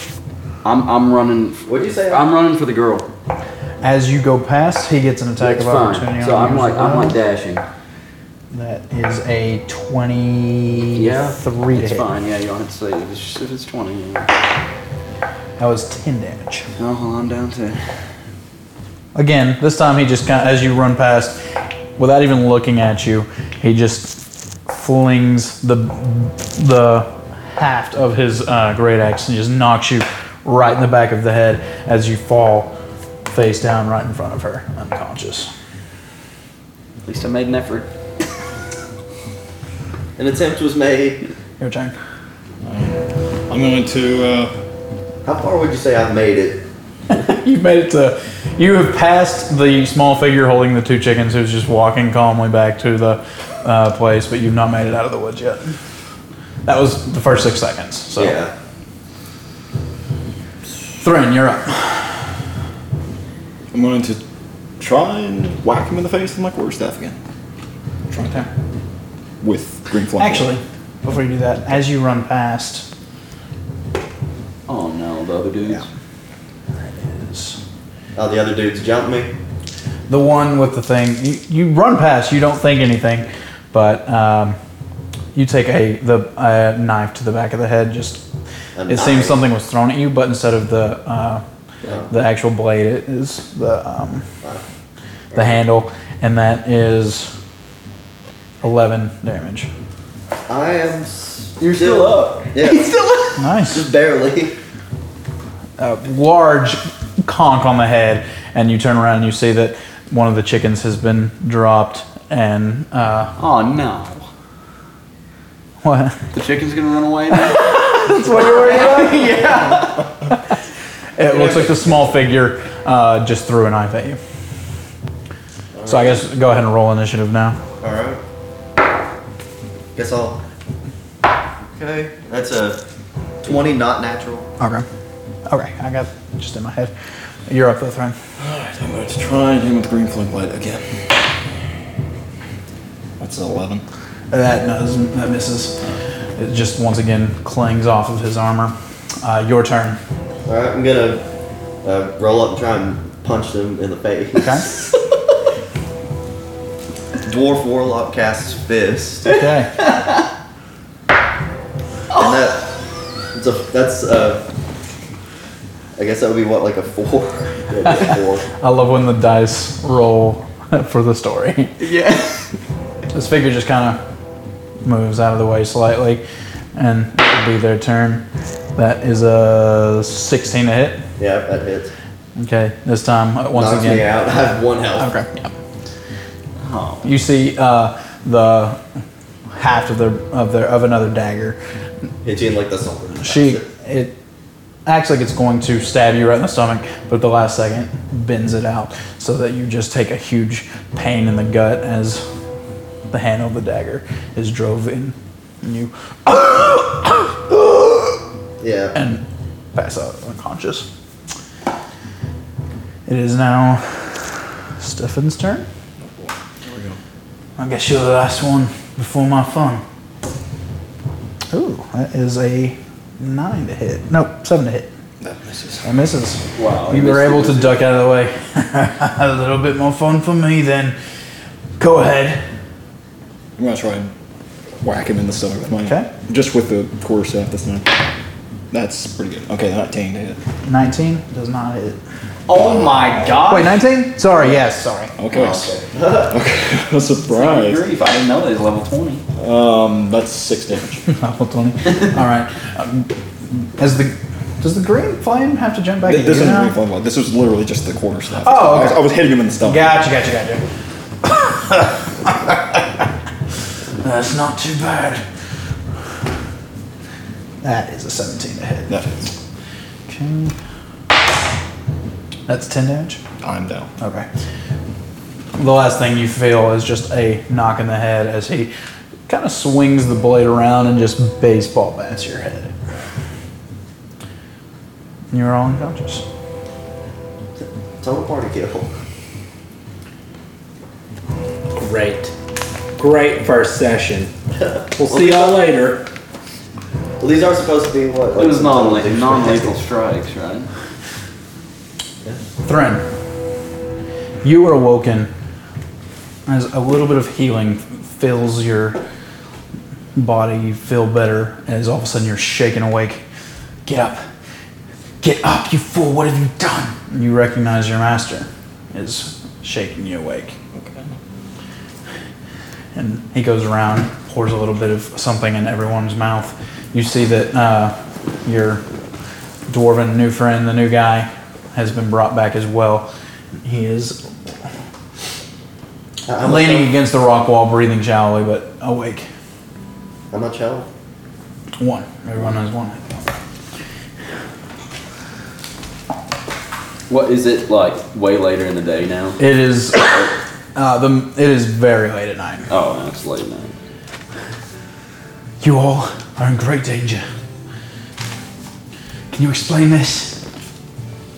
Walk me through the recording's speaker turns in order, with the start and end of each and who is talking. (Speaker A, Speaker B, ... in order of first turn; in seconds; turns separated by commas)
Speaker A: 0.6-3.1, Speaker B: 1.6-2.3, Speaker C: 3.8-7.2, Speaker A: 5.4-7.6, Speaker C: 8.5-12.1, Speaker A: 10.9-14.3, Speaker C: 15.6-16.7, Speaker A: 16.8-17.8, Speaker C: 19.1-21.4, Speaker C: 21.9-32.7, Speaker C: 33.3-35.5, Speaker A: 37.0-37.9, Speaker B: 40.2-41.2, Speaker C: 41.6-41.9, Speaker D: 42.6-44.5, Speaker B: 45.2-46.6, Speaker C: 47.1-55.8, Speaker C: 56.6-58.4, Speaker B: 58.1-58.5, Speaker C: 61.0-62.4, Speaker D: 63.7-64.2, Speaker D: 64.8-67.2, Speaker C: 68.1-68.5, Speaker D: 69.4-70.5, Speaker C: 70.1-72.9, Speaker A: 74.7-75.8, Speaker C: 76.7-77.6, Speaker B: 78.2-79.3, Speaker C: 80.1-84.6, Speaker C: 85.3-88.3, Speaker B: 88.8-89.4, Speaker C: 88.9-91.4, Speaker B: 91.8-92.1, Speaker C: 92.1-94.3, Speaker C: 95.3-97.3, Speaker C: 98.6-99.7, Speaker B: 100.5-104.5, Speaker A: 101.6-103.3, Speaker C: 103.3-103.9, Speaker C: 105.8-113.3, Speaker A: 113.4-114.3, Speaker C: 115.8-116.3, Speaker A: 116.3-120.0, Speaker C: 117.3-119.6, Speaker C: 120.3-120.6, Speaker C: 121.2-124.2, Speaker B: 125.7-126.2, Speaker C: 125.8-127.6, Speaker B: 127.8-128.2, Speaker B: 129.9-130.4, Speaker B: 131.7-132.8, Speaker B: 133.4-134.5, Speaker C: 134.6-134.8, Speaker C: 135.4-136.9, Speaker C: 137.4-138.2, Speaker D: 138.4-141.4, Speaker D: 143.2-143.8, Speaker C: 144.3-150.0, Speaker B: 150.4-151.3, Speaker B: 151.8-154.7, Speaker C: 154.4-154.7, Speaker B: 157.2-159.4, Speaker C: 159.3-159.8, Speaker A: 159.8-160.1, Speaker B: 162.1-162.7, Speaker B: 163.3-164.4, Speaker B: 165.9-168.5, Speaker C: 168.5-171.8, Speaker A: 171.8-172.6, Speaker C: 173.1-174.0, Speaker C: 174.8-176.2, Speaker C: 176.7-181.0, Speaker B: 181.2-181.9, Speaker C: 182.3-184.2, Speaker B: 183.5-185.1, Speaker C: 185.0-185.5, Speaker A: 186.6-187.1, Speaker C: 187.0-188.8, Speaker C: 189.5-191.6, Speaker B: 192.2-193.6, Speaker C: 193.2-194.2, Speaker C: 194.8-202.2, Speaker C: 203.1-208.2, Speaker B: 208.6-208.9, Speaker C: 208.9-210.9, Speaker C: 213.1-215.7, Speaker D: 216.0-217.0, Speaker C: 217.6-219.8, Speaker C: 221.5-224.9, Speaker D: 225.2-225.9, Speaker C: 225.8-231.0, Speaker A: 226.6-227.8, Speaker C: 231.8-232.4, Speaker D: 233.6-234.1, Speaker D: 234.8-238.1, Speaker C: 235.8-236.1, Speaker D: 238.7-240.4, Speaker C: 240.6-242.0, Speaker A: 242.5-243.8, Speaker D: 243.0-243.4, Speaker C: 243.5-245.2, Speaker D: 245.2-247.9, Speaker B: 245.3-246.3, Speaker A: 247.3-249.2, Speaker D: 249.3-251.0, Speaker C: 251.1-256.8, Speaker D: 256.0-259.9, Speaker C: 258.4-260.6, Speaker C: 261.2-263.0, Speaker C: 264.0-265.3, Speaker C: 267.6-269.0, Speaker D: 268.9-269.3, Speaker C: 270.1-270.6, Speaker C: 272.5-273.2, Speaker D: 273.4-273.9, Speaker C: 274.0-274.3, Speaker C: 275.6-278.7, Speaker C: 279.3-282.7, Speaker C: 285.3-286.2, Speaker B: 287.6-288.9, Speaker E: 291.7-292.3, Speaker E: 293.0-294.3, Speaker B: 294.6-295.6, Speaker E: 294.9-296.1, Speaker B: 297.2-299.8, Speaker A: 298.3-300.7, Speaker C: 302.6-303.1, Speaker C: 304.4-305.3, Speaker C: 306.5-309.0, Speaker C: 310.1-313.2, Speaker C: 313.8-314.2, Speaker C: 315.2-320.6, Speaker D: 320.7-321.1, Speaker C: 322.9-328.8, Speaker C: 329.7-333.1, Speaker C: 333.6-334.5, Speaker B: 336.3-336.9, Speaker C: 336.4-339.3, Speaker B: 340.3-340.9, Speaker C: 341.8-343.3, Speaker A: 347.1-349.4, Speaker C: 349.4-352.7, Speaker A: 352.7-353.8, Speaker C: 355.6-357.2, Speaker C: 359.3-360.4